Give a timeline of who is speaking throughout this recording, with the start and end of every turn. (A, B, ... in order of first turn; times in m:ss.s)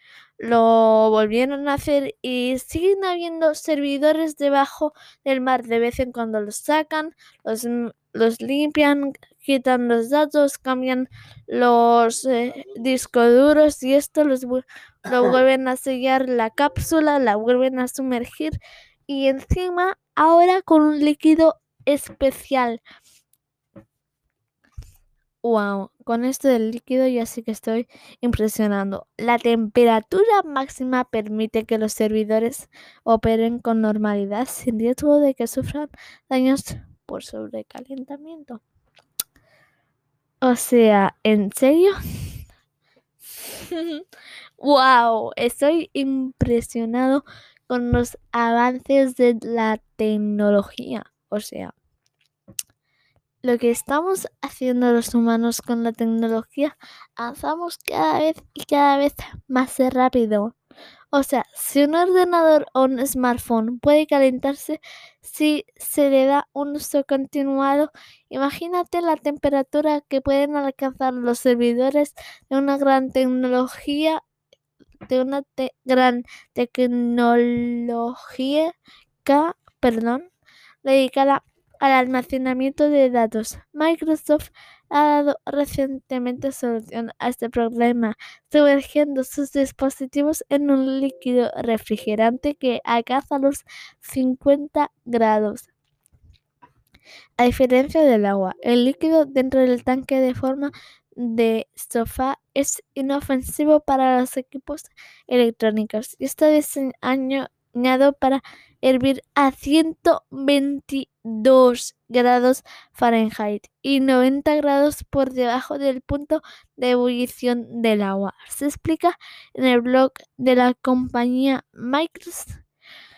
0:00.4-0:22.8 A
0:25.4-0:38.6 A
0:40.4-0:42.0 A
0:43.4-0:44.0 A
0:44.6-0:51.7 A
0:53.4-1:00.6 A
1:01.1-1:14.2 A
1:15.1-1:20.3 A
1:20.8-1:35.7 A
1:37.4-2:02.6 A